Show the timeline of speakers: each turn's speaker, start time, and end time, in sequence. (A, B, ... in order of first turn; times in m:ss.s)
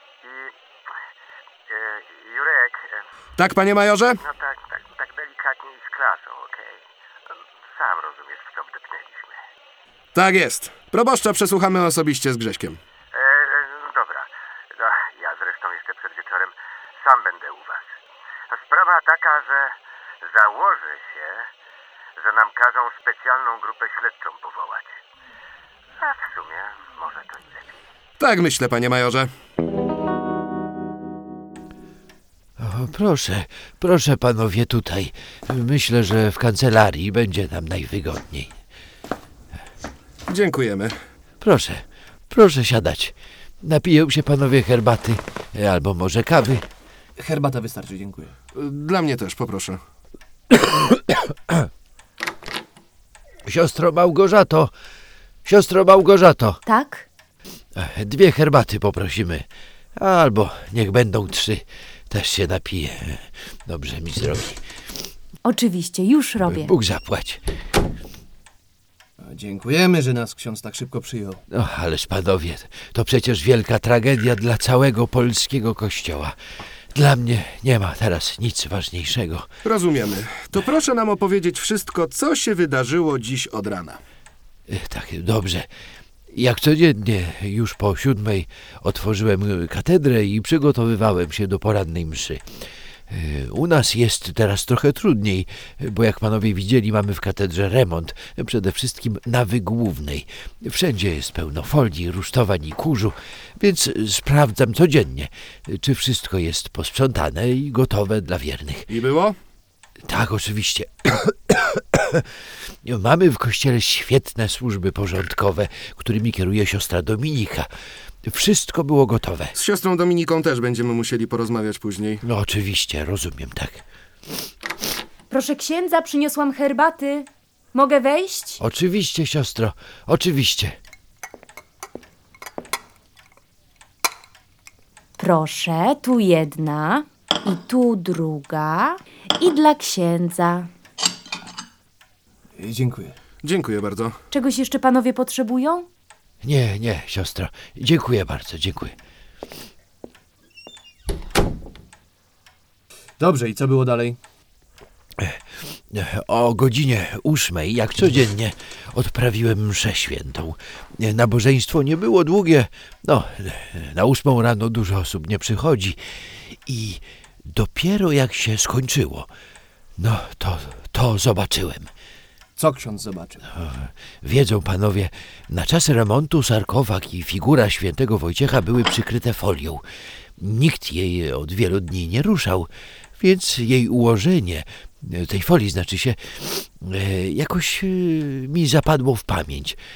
0:00.2-0:00.5 A
0:01.7-0:03.0 A
0:03.4-0:04.2 B
0:04.2-0:06.8 A
0:07.7-0:09.4 A
0:10.1-0:12.8 B
0:13.1-0:17.9 A
0:18.5-0:21.5 A
0:22.2-0:24.9 A
0:26.0-0:27.6 A
0:28.2-0:29.3 B
0:32.6-0:38.5 C
0:40.3-0:41.0 B
0:41.4-0:46.6 C
0:47.2-0:48.4 D
0:48.5-0:49.8 B
0:53.4-0:54.7 C
0:55.4-0:56.6 C
0:56.6-0:57.0 E
0:57.8-1:04.6 C
1:05.5-1:06.7 E
1:06.4-1:07.4 C
1:09.2-1:11.4 D
1:11.5-1:16.4 C
1:16.9-1:19.5 C
1:19.6-1:24.0 B
1:24.7-1:25.7 C
1:26.3-1:32.5 C
1:33.1-1:48.9 C
1:48.9-1:49.4 B
1:50.0-1:52.3 C
1:52.8-1:57.7 C
1:58.2-1:59.5 C
1:59.5-2:02.2 B
2:02.2-2:03.8 C
2:05.3-2:08.6 E
2:08.6-2:10.8 C
2:15.2-2:20.7 E
2:22.6-2:23.1 D
2:23.4-2:24.2 B
2:24.3-2:25.9 E
2:26.4-2:29.0 C
2:33.2-2:34.2 D
2:35.2-2:49.3 C
2:50.0-2:51.9 C
2:52.6-2:53.5 D
2:53.5-2:59.8 C
3:00.4-3:09.8 C